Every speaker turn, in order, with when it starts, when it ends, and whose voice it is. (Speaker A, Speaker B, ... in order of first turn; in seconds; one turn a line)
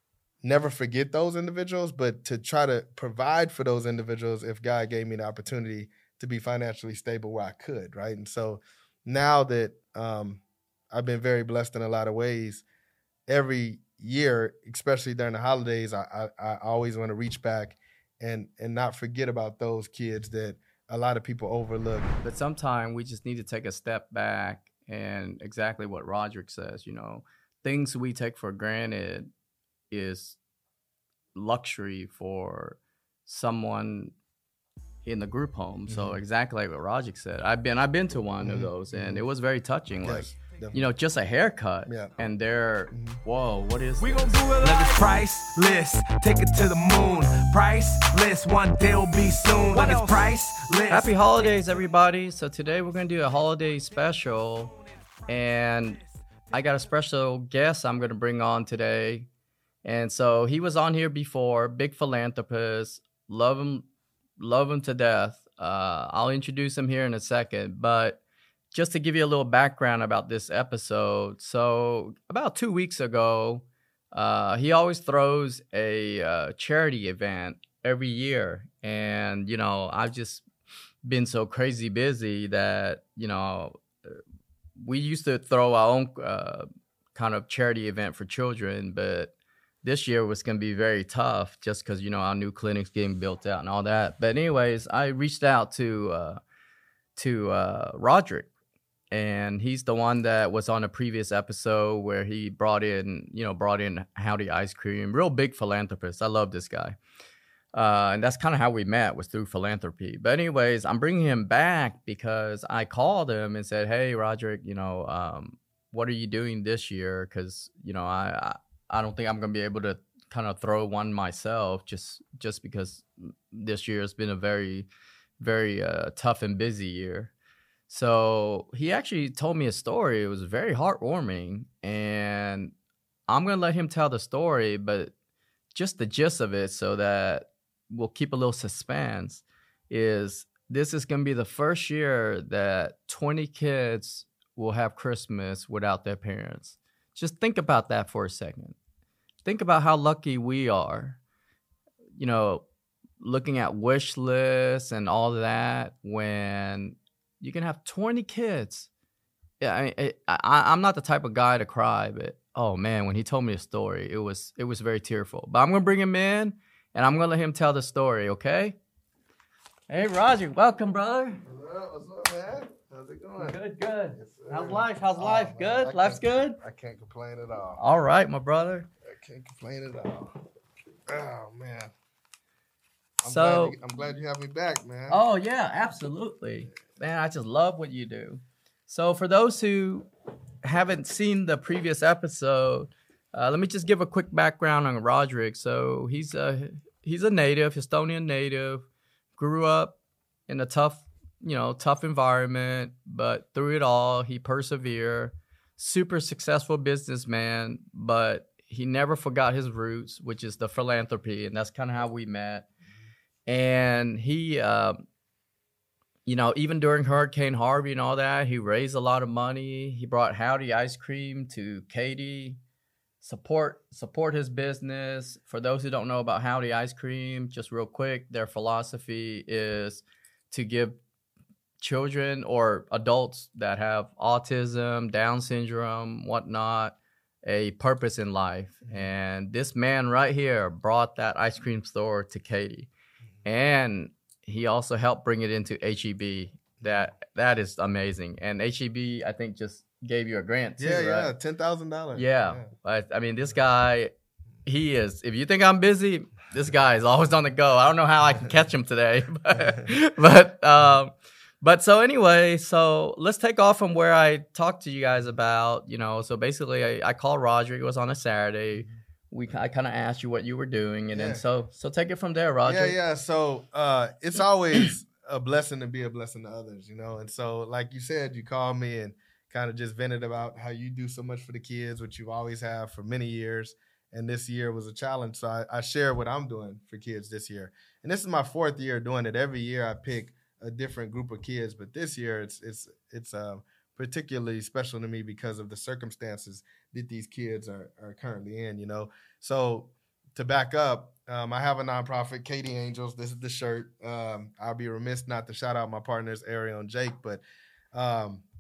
Speaker A: 0.4-12.6
Speaker A: 13.3-22.1
Speaker B: 22.2-29.3
Speaker B: 29.9-30.4
Speaker B: 31.4-34.1
Speaker B: 35.0-44.9
Speaker A: 35.9-36.2
Speaker A: 38.4-39.2
Speaker A: 40.0-40.8
Speaker A: 41.9-42.1
Speaker A: 42.9-43.2
Speaker C: 44.0-51.6
Speaker B: 49.7-50.1
Speaker B: 50.9-54.7
Speaker B: 55.3-56.0
Speaker B: 56.5-59.3
Speaker B: 59.8-63.9
Speaker B: 64.4-68.2
Speaker B: 68.7-80.5
Speaker B: 81.0-84.2
Speaker B: 84.8-96.4
Speaker B: 97.2-98.5
Speaker B: 99.1-107.0
Speaker B: 107.7-127.3
Speaker B: 127.9-132.7
Speaker B: 133.3-135.1
Speaker B: 135.7-148.8
Speaker B: 149.4-151.2
Speaker B: 152.2-152.7
Speaker B: 153.2-158.9
Speaker B: 159.6-168.8
Speaker B: 169.9-171.4
Speaker A: 171.4-173.6
Speaker B: 173.4-176.6
Speaker A: 174.1-177.8
Speaker B: 177.8-178.9
Speaker A: 179.1-180.3
Speaker A: 181.1-181.9
Speaker A: 183.2-185.2
Speaker B: 183.2-183.8
Speaker B: 185.1-190.1
Speaker B: 190.6-198.9
Speaker B: 199.4-200.0
Speaker B: 200.5-212.7
Speaker B: 213.5-215.0
Speaker B: 216.2-222.6
Speaker B: 223.2-231.0
Speaker B: 231.8-242.9
Speaker B: 243.4-251.3
Speaker A: 250.8-252.7
Speaker B: 252.2-254.1
Speaker B: 254.7-273.0
Speaker A: 271.1-271.4
Speaker A: 272.6-307.4
Speaker A: 307.9-308.4